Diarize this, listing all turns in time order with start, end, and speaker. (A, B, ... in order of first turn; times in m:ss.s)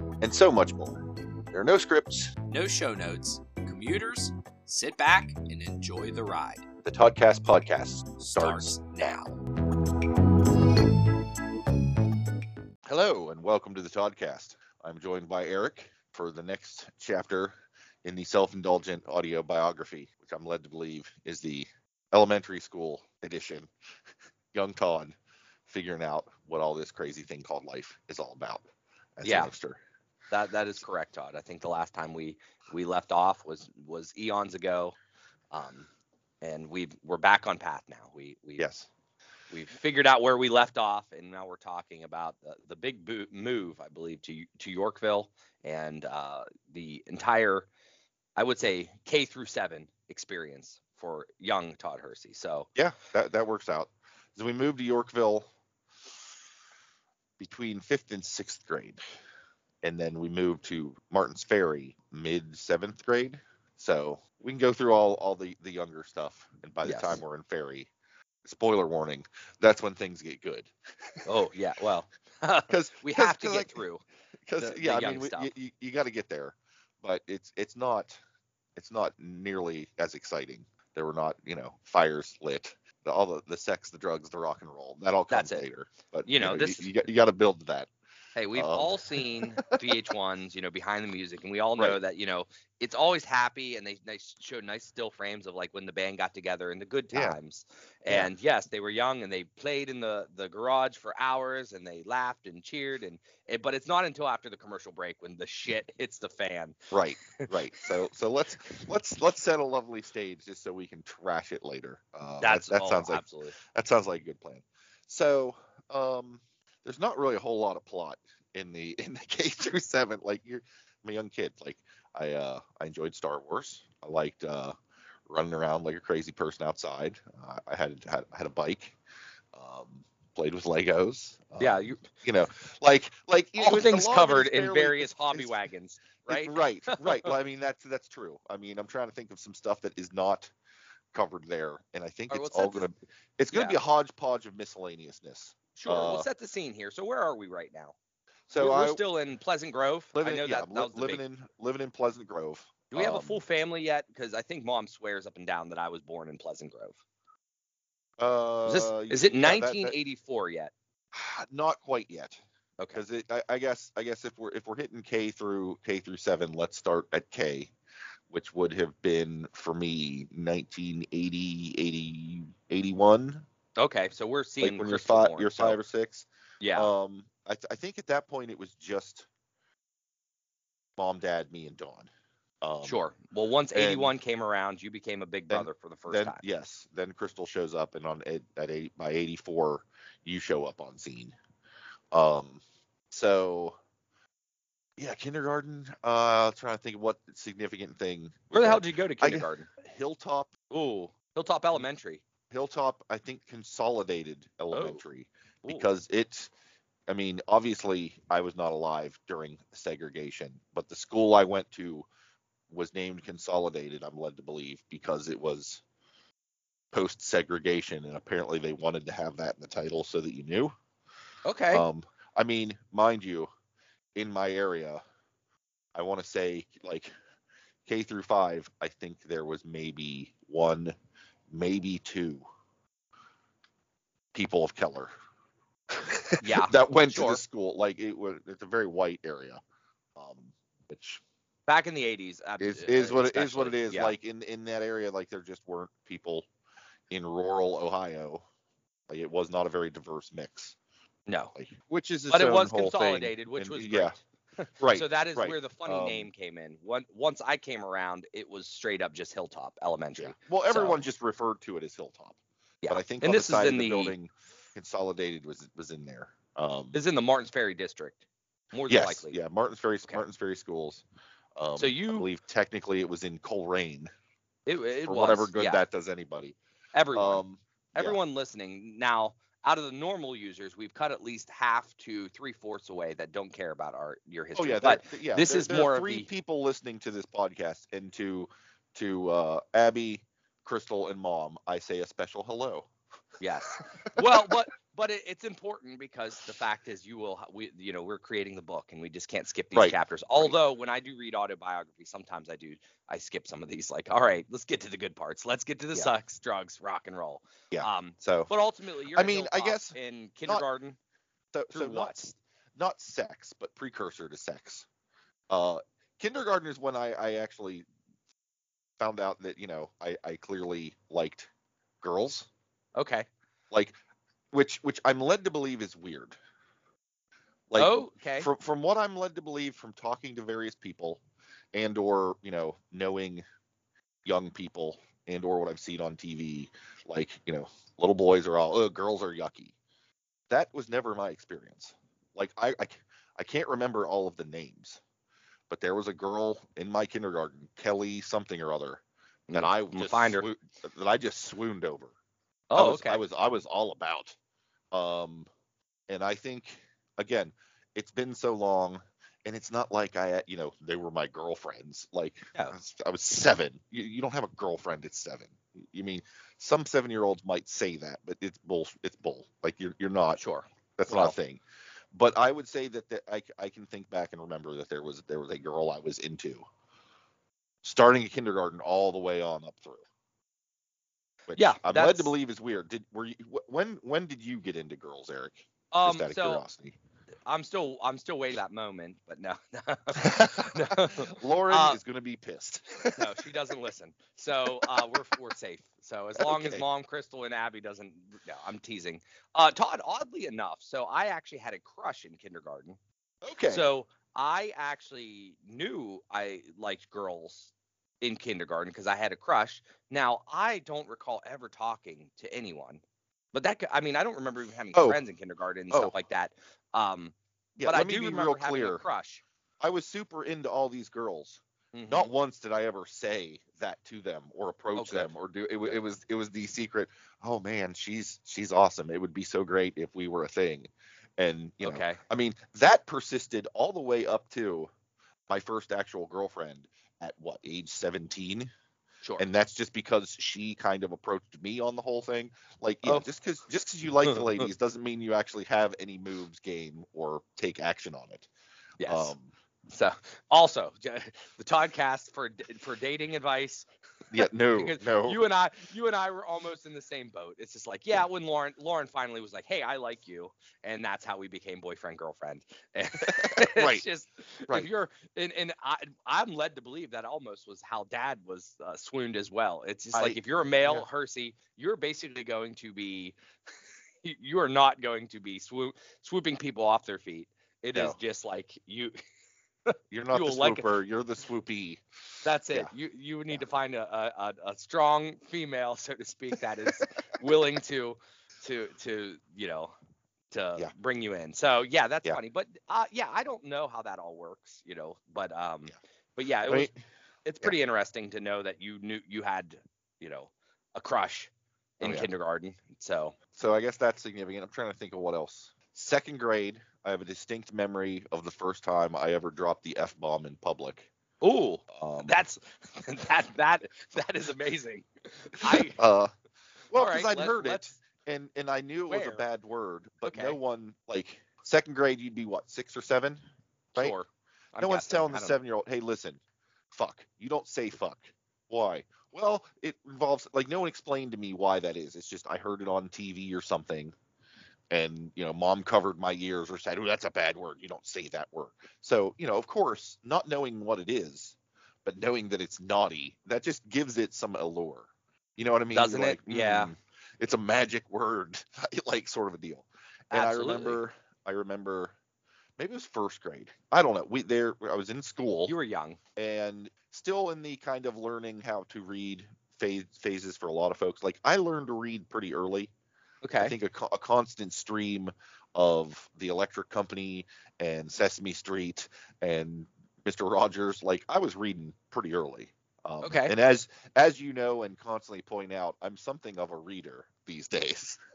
0:00.2-0:02.3 A
0:02.5-0:06.6 B
0:06.8-0:09.3 A
0:08.2-0:08.8 B
0:12.8-0:23.7 A
0:24.5-0:28.6 A
0:29.2-0:29.8 A
0:29.2-0:29.5 C
0:30.3-0:35.0 C
0:35.5-0:35.9 C
0:36.4-0:38.6 C
0:38.6-0:38.9 A
0:39.5-0:47.7 C
0:48.4-0:52.7 C
0:52.8-0:55.5 A
0:57.4-0:59.0 A
0:59.8-1:07.9 A
1:06.8-1:07.2 C
1:08.4-1:11.2 A
1:11.2-1:14.0 C
1:12.7-1:13.8 A
1:14.5-1:18.2 A
1:14.6-1:15.5 C
1:18.7-1:27.9 A
1:25.3-1:25.6 C
1:26.3-1:26.9 C
1:28.4-1:46.8 C
1:28.5-1:29.8 A
1:37.1-1:37.4 A
1:46.9-2:04.7 A
1:47.4-1:47.8 C
1:52.4-1:53.6 C
2:05.3-2:09.0 A
2:09.5-2:15.6 A
2:11.6-2:12.0 C
2:13.6-2:17.3 C
2:16.3-2:20.5 A
2:21.1-2:26.3 A
2:22.3-2:22.9 C
2:23.5-2:23.8 C
2:25.8-2:27.9 C
2:28.5-2:29.0 A
2:28.6-2:31.2 C
2:30.1-2:33.4 A
2:32.9-2:37.0 C
2:38.2-2:39.9 A
2:38.6-2:40.7 C
2:41.1-2:42.4 A
2:42.9-2:47.7 A
2:48.3-2:53.4 A
2:53.8-2:55.8 C
2:54.6-2:59.3 A
2:56.6-2:56.9 C
3:01.0-3:02.1 A
3:02.6-3:03.0 A
3:02.8-3:06.4 C
3:03.7-3:04.2 A
3:05.5-3:11.3 A
3:12.1-3:12.6 A
3:13.1-3:13.8 A
3:15.0-3:20.5 A
3:18.5-3:19.7 C
3:20.7-3:22.2 C
3:22.5-3:26.5 A
3:24.7-3:25.0 C
3:27.1-3:32.1 A
3:32.7-3:35.8 A
3:36.9-3:40.7 A
3:41.4-3:41.8 C
3:41.7-3:43.5 A
3:44.1-3:45.0 A
3:45.9-3:47.1 A
3:47.8-3:51.0 A
3:51.5-3:52.4 A
3:54.3-3:55.1 A
3:55.9-3:59.6 A
3:56.4-3:57.4 C
4:00.2-4:01.2 A
4:01.7-4:04.1 C
4:02.6-4:06.5 A
4:07.1-4:08.4 A
4:09.1-4:10.8 A
4:11.3-4:11.5 C
4:11.5-4:14.2 A
4:12.3-4:21.0 C
4:14.8-4:16.3 A
4:20.2-4:22.4 A
4:22.8-4:24.2 C
4:22.9-4:27.0 A
4:26.9-4:28.2 C
4:28.7-4:29.4 C
4:28.9-4:31.0 A
4:31.6-4:34.1 A
4:31.8-4:32.3 C
4:34.6-4:35.8 C
4:35.0-4:36.6 A
4:36.9-4:37.4 C
4:37.1-4:38.2 A
4:37.9-4:46.3 C
4:44.6-4:52.9 A
4:53.4-5:11.0 C
4:54.0-4:54.5 A
4:59.7-5:00.6 A
5:07.7-5:08.5 A
5:09.1-5:10.6 A
5:11.5-5:14.9 A
5:11.7-5:12.1 C
5:15.5-5:17.8 A
5:19.0-5:21.5 A
5:22.0-5:22.5 A
5:23.0-5:23.3 C
5:24.5-5:26.4 A
5:27.7-5:31.2 A
5:27.8-5:28.5 C
5:31.7-5:33.4 A
5:34.2-5:39.7 A
5:40.5-5:45.0 A
5:45.7-5:52.1 A
5:49.5-5:50.4 C
5:52.7-5:53.2 C
5:52.7-5:54.4 A
5:54.9-5:55.5 A
5:56.1-6:10.4 A
6:10.4-6:11.4 C
6:11.0-6:11.6 A
6:12.1-6:16.6 A
6:17.8-6:20.0 A
6:21.5-6:27.0 A
6:21.6-6:22.3 C
6:25.9-6:26.6 C
6:27.5-6:32.0 C
6:30.2-6:33.5 A
6:33.2-6:43.0 C
6:34.6-6:35.0 A
6:36.4-6:36.8 A
6:43.4-6:43.9 A
6:43.7-6:53.0 C
6:53.5-6:59.4 C
6:54.9-6:55.2 A
6:57.8-6:59.0 A
6:59.8-7:14.9 A
7:01.9-7:02.3 C
7:05.0-7:05.3 C
7:11.8-7:12.2 C
7:15.5-7:18.7 A
7:19.4-7:28.5 A
7:24.2-7:24.7 C
7:29.0-7:29.3 C
7:29.0-7:29.5 A
7:29.9-7:33.9 C
7:34.3-7:35.4 A
7:34.7-7:53.4 C
7:43.2-7:44.0 A
7:50.1-7:51.1 A
7:54.2-7:59.1 C
7:59.9-8:01.0 C
8:00.1-8:02.0 A
8:02.4-8:09.9 C
8:10.5-8:16.9 C
8:16.7-8:16.9 A
8:17.4-8:23.4 C
8:22.0-8:22.3 A
8:23.5-8:31.1 A
8:31.4-8:36.0 C
8:31.9-8:32.4 A
8:35.6-8:36.3 A
8:36.9-8:43.4 A
8:37.0-8:37.9 C
8:39.1-8:39.4 C
8:40.3-8:40.6 C
8:44.0-8:45.6 C
8:44.8-8:46.4 A
8:46.9-8:54.1 A
8:54.9-9:12.1 A
9:05.9-9:06.9 C
9:10.3-9:11.0 C
9:12.8-9:15.7 A
9:15.7-9:16.2 C
9:16.4-9:22.9 A
9:23.4-9:23.8 C
9:23.6-9:38.2 A
9:33.2-9:33.5 C